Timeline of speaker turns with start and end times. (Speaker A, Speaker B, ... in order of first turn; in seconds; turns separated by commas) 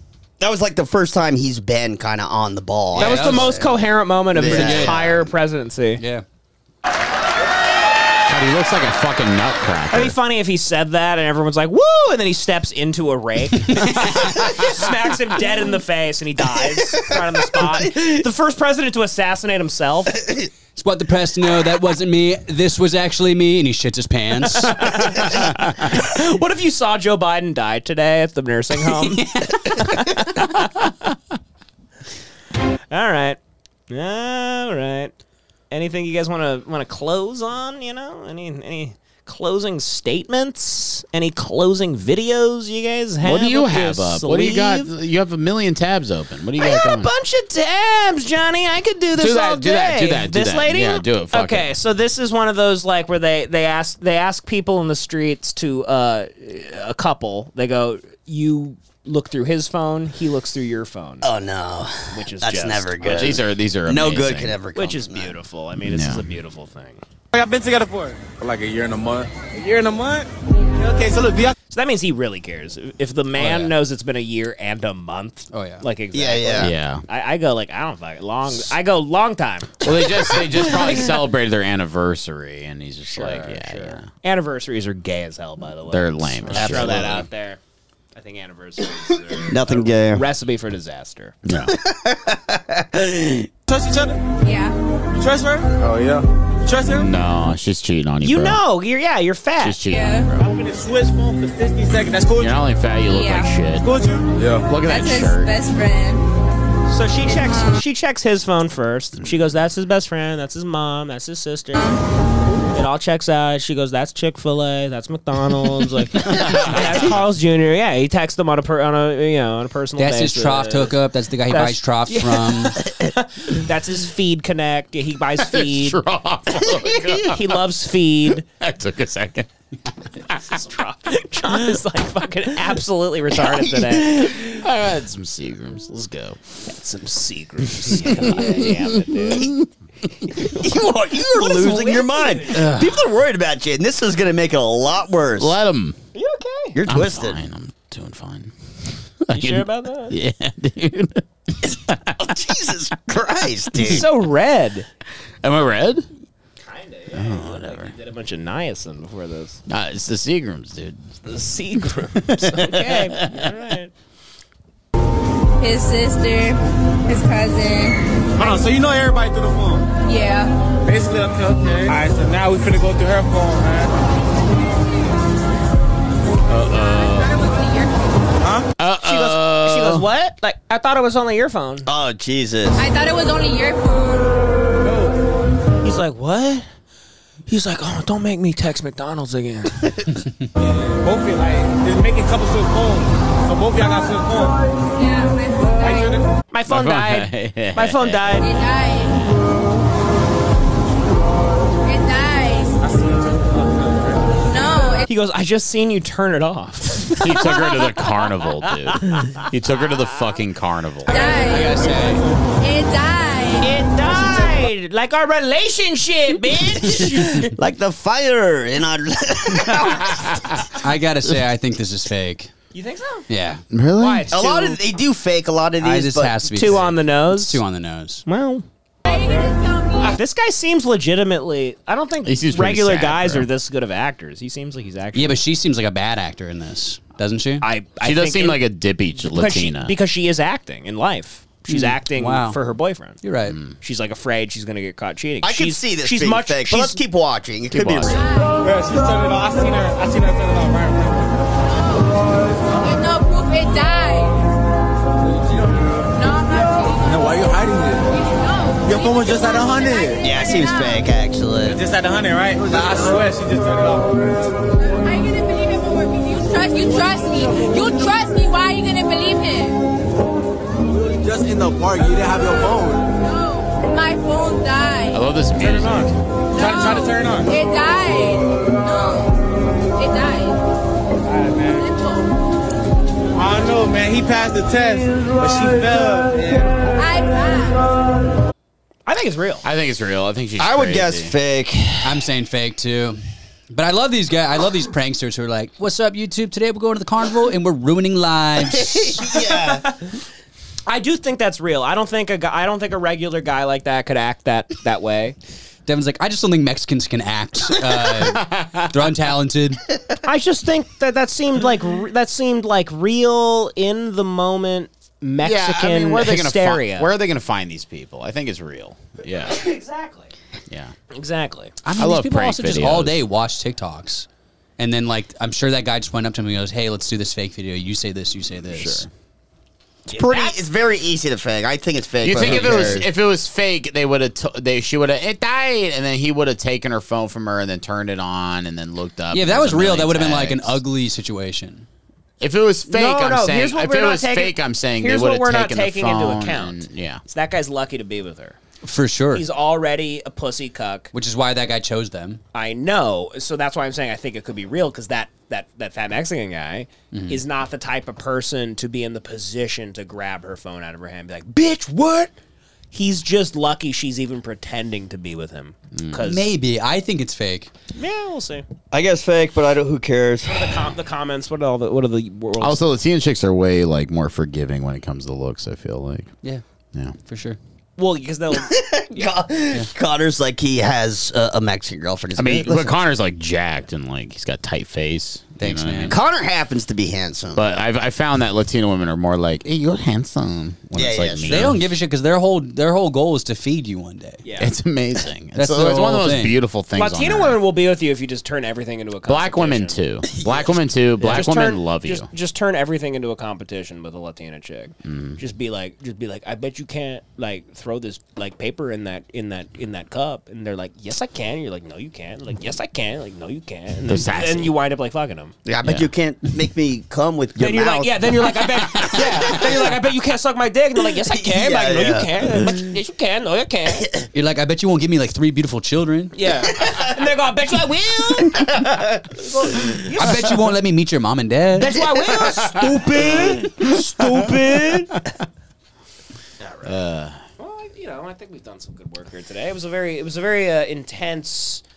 Speaker A: 0.4-3.8, Speaker B: 3.0-3.6, Speaker C: 3.0-6.0, Speaker A: 4.3-5.2, Speaker B: 4.3-5.2, Speaker B: 6.0-6.2, Speaker D: 8.3-10.1, Speaker C: 9.9-20.2, Speaker B: 20.8-25.8, Speaker C: 24.6-30.7, Speaker B: 29.0-29.9, Speaker C: 32.9-33.4, Speaker C: 33.9-35.1, Speaker C: 35.7-44.9, Speaker D: 43.2-47.1, Speaker C: 46.6-61.3, Speaker D: 49.2-51.7, Speaker A: 61.2-65.3, Speaker C: 62.1-63.3, Speaker D: 63.0-64.6, Speaker C: 64.8-67.0, Speaker D: 65.8-66.2, Speaker E: 67.3-71.6, Speaker C: 71.7-79.8, Speaker B: 73.4-73.7, Speaker B: 75.5-75.8, Speaker A: 76.1-76.7, Speaker D: 76.6-77.0, Speaker D: 79.8-84.1, Speaker C: 83.1-87.6, Speaker D: 85.9-87.2, Speaker A: 86.5-87.2, Speaker C: 88.1-91.4, Speaker A: 89.5-90.2, Speaker D: 91.5-91.8, Speaker A: 91.5-93.5, Speaker E: 93.7-94.2, Speaker F: 94.4-94.8, Speaker E: 95.2-97.1, Speaker D: 96.9-98.6, Speaker C: 98.2-99.8, Speaker D: 99.6-100.5, Speaker F: 99.9-100.3, Speaker E: 100.4-102.6, Speaker D: 102.4-103.9, Speaker F: 103.0-103.5, Speaker E: 103.8-104.7, Speaker D: 104.7-105.5, Speaker F: 104.8-106.2, Speaker C: 106.9-111.9, Speaker C: 112.7-121.0, Speaker D: 116.3-116.9, Speaker B: 120.0-122.8, Speaker C: 121.5-126.0, Speaker D: 125.4-127.4, Speaker C: 127.0-128.4, Speaker D: 128.5-129.5, Speaker C: 130.4-134.4, Speaker A: 133.5-134.4, Speaker D: 134.4-136.4, Speaker C: 136.7-139.5, Speaker D: 138.2-139.5, Speaker A: 140.4-145.6, Speaker C: 141.3-142.6, Speaker D: 145.4-146.0, Speaker C: 146.1-146.8, Speaker A: 146.8-147.4, Speaker D: 146.9-148.5, Speaker D: 149.2-152.3, Speaker C: 149.3-150.2, Speaker A: 151.6-154.1, Speaker C: 153.8-154.9, Speaker D: 155.4-156.1, Speaker C: 156.6-159.6, Speaker D: 157.1-157.9, Speaker D: 159.7-161.0, Speaker C: 161.2-163.9, Speaker D: 162.3-163.5, Speaker F: 165.6-168.0, Speaker E: 168.4-169.9, Speaker F: 170.1-170.5, Speaker E: 170.8-173.9, Speaker D: 176.5-177.5, Speaker F: 176.8-178.2, Speaker E: 178.4-178.7, Speaker D: 178.8-180.1, Speaker C: 179.0-181.9, Speaker A: 181.9-182.8, Speaker F: 182.8-184.3, Speaker E: 184.8-185.2, Speaker C: 185.8-186.7, Speaker C: 187.5-189.8, Speaker E: 190.6-194.6, Speaker F: 195.0-196.2, Speaker E: 195.8-196.3, Speaker C: 196.5-198.5, Speaker D: 196.7-198.4, Speaker F: 198.4-199.2, Speaker F: 201.8-202.8, Speaker E: 202.8-204.2, Speaker F: 204.5-205.1, Speaker C: 205.1-208.1, Speaker D: 207.2-211.2, Speaker C: 209.0-209.4, Speaker C: 211.1-212.2, Speaker F: 211.1-212.1, Speaker B: 211.7-212.2, Speaker F: 212.6-213.7, Speaker C: 213.6-217.6, Speaker A: 217.5-220.4, Speaker D: 220.1-220.5, Speaker B: 220.8-222.5, Speaker C: 222.7-223.3, Speaker B: 223.3-223.6, Speaker D: 223.7-224.3, Speaker C: 224.0-224.8, Speaker A: 224.3-226.8, Speaker B: 225.8-228.2, Speaker C: 226.5-227.6, Speaker C: 228.3-228.7, Speaker F: 229.1-230.2, Speaker E: 229.1-229.5, Speaker C: 230.1-235.4, Speaker D: 232.2-233.5, Speaker B: 235.1-237.7, Speaker C: 237.6-238.6, Speaker D: 238.0-239.9, Speaker C: 239.3-243.2, Speaker B: 241.7-242.6, Speaker B: 243.2-243.6, Speaker D: 243.4-243.8, Speaker C: 243.8-247.0, Speaker A: 245.4-248.2, Speaker D: 247.7-248.2, Speaker F: 248.1-248.6, Speaker E: 248.6-251.4, Speaker F: 251.7-252.2, Speaker F: 252.8-254.5, Speaker E: 255.3-255.8, Speaker F: 256.1-261.1, Speaker E: 257.0-258.0, Speaker E: 258.9-260.2, Speaker A: 260.2-261.8, Speaker E: 261.7-264.2, Speaker F: 264.9-269.8, Speaker E: 270.9-273.0, Speaker F: 273.2-275.2, Speaker D: 275.1-276.1, Speaker E: 275.6-277.5, Speaker F: 276.5-279.4, Speaker F: 280.0-280.6, Speaker E: 281.3-281.9, Speaker F: 281.7-282.3, Speaker E: 283.4-286.8, Speaker F: 287.0-287.9, Speaker C: 289.1-289.6, Speaker D: 289.6-291.3, Speaker A: 290.6-292.3, Speaker B: 292.0-299.4, Speaker A: 298.7-299.9, Speaker C: 300.9-305.4, Speaker B: 305.9-309.9, Speaker D: 308.4-308.9, Speaker C: 310.2-317.1, Speaker D: 315.4-319.6, Speaker C: 319.4-320.3, Speaker D: 320.7-320.9, Speaker C: 321.1-321.7, Speaker B: 321.8-324.3, Speaker D: 322.0-323.2, Speaker B: 324.8-329.1, Speaker C: 328.7-329.1, Speaker C: 330.1-330.6, Speaker A: 330.1-333.1, Speaker D: 332.2-340.8, Speaker B: 339.3-341.9, Speaker D: 342.4-347.2, Speaker C: 342.9-348.6, Speaker B: 348.8-349.5, Speaker C: 349.3-351.1, Speaker B: 351.1-352.4, Speaker C: 352.5-362.3, Speaker B: 357.1-357.4, Speaker C: 362.9-366.5, Speaker D: 365.9-366.2, Speaker B: 366.2-367.7, Speaker C: 367.9-368.6, Speaker A: 368.9-370.9, Speaker C: 370.4-372.8, Speaker D: 372.6-376.3, Speaker B: 377.2-377.6, Speaker C: 378.0-378.8, Speaker A: 378.5-383.0, Speaker D: 382.4-386.2, Speaker B: 385.6-386.2, Speaker A: 386.1-387.6, Speaker D: 387.6-391.8, Speaker A: 390.9-391.7, Speaker B: 391.5-394.4, Speaker C: 394.4-394.7, Speaker D: 394.6-397.6, Speaker B: 395.6-396.6, Speaker C: 397.0-400.0, Speaker D: 399.3-402.3, Speaker C: 401.2-415.5, Speaker D: 405.0-405.4, Speaker D: 414.1-414.8, Speaker A: 415.6-419.6, Speaker D: 415.8-416.1, Speaker C: 417.6-424.1, Speaker A: 421.1-422.8, Speaker B: 424.3-426.4, Speaker C: 426.3-428.8, Speaker A: 428.5-430.0, Speaker C: 429.7-430.7, Speaker B: 430.2-432.0, Speaker C: 431.8-435.1, Speaker A: 431.9-435.0, Speaker C: 436.6-437.0, Speaker D: 436.9-437.4, Speaker C: 437.6-441.8